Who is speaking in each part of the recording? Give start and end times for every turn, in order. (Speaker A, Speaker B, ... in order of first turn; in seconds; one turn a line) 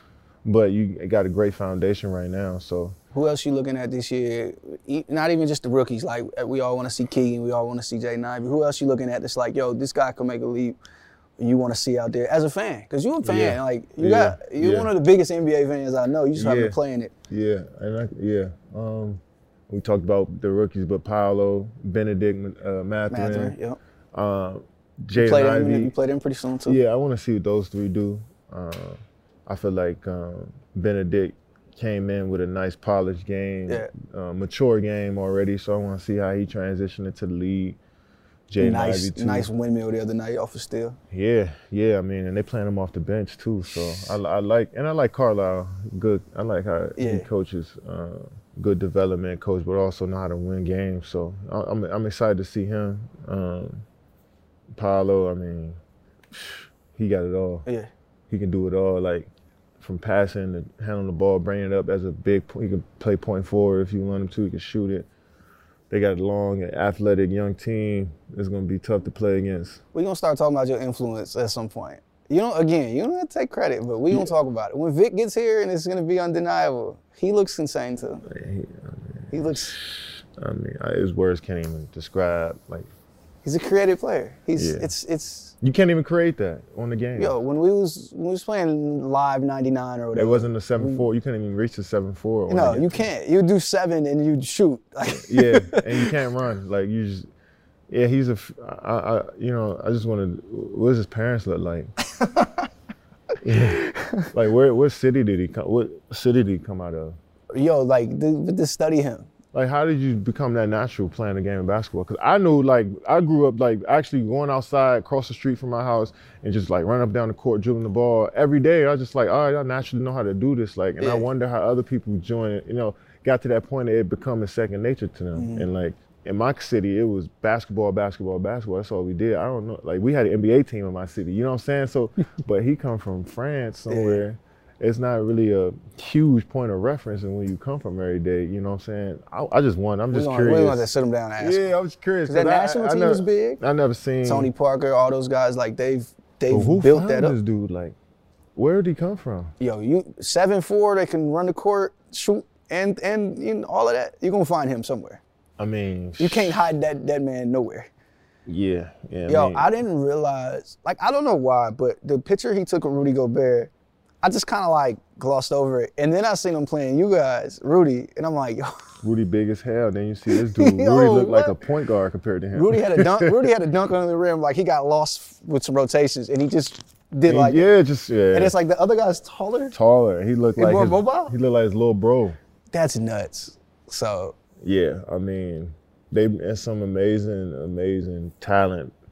Speaker A: 0.4-3.0
Speaker B: 3.1-10.8
Speaker B: 11.4-17.1
Speaker A: 13.2-14.9
Speaker A: 16.3-16.8
Speaker A: 17.3-23.5
Speaker B: 23.1-23.8
Speaker A: 24.1-25.9
Speaker B: 25.1-26.8
Speaker A: 26.6-37.8
Speaker A: 38.5-39.5
Speaker B: 38.6-41.0
Speaker A: 41.1-53.9
Speaker B: 47.0-47.2
Speaker A: 54.7-55.8
Speaker A: 56.3-57.6
Speaker A: 58.3-59.3
Speaker A: 59.8-65.1
Speaker A: 65.9-69.8
Speaker B: 69.9-78.2
Speaker A: 78.2-82.9
Speaker B: 79.3-79.7
Speaker B: 83.4-85.5
Speaker A: 84.5-84.9
Speaker A: 85.6-87.3
Speaker B: 87.2-91.0
Speaker A: 90.1-93.1
Speaker B: 92.5-96.1
Speaker A: 95.1-97.3
Speaker A: 97.9-101.9
Speaker B: 102.2-102.6
Speaker A: 103.4-107.2
Speaker B: 103.6-104.3
Speaker B: 107.5-109.3
Speaker A: 109.5-144.5
Speaker B: 121.0-121.3
Speaker B: 125.3-125.7
Speaker B: 133.9-134.2
Speaker B: 140.1-141.7
Speaker B: 142.2-143.6
Speaker B: 144.2-147.3
Speaker A: 146.5-147.9
Speaker A: 148.6-149.5
Speaker B: 149.6-155.2
Speaker A: 155.6-156.7
Speaker B: 156.2-157.9
Speaker A: 158.4-159.8
Speaker B: 159.3-163.7
Speaker B: 164.2-168.7
Speaker A: 169.0-173.5
Speaker B: 170.3-171.6
Speaker B: 172.5-177.7
Speaker A: 177.3-178.5
Speaker B: 178.3-179.7
Speaker A: 179.7-182.4
Speaker B: 180.6-181.3
Speaker B: 182.7-184.3
Speaker A: 184.6-188.9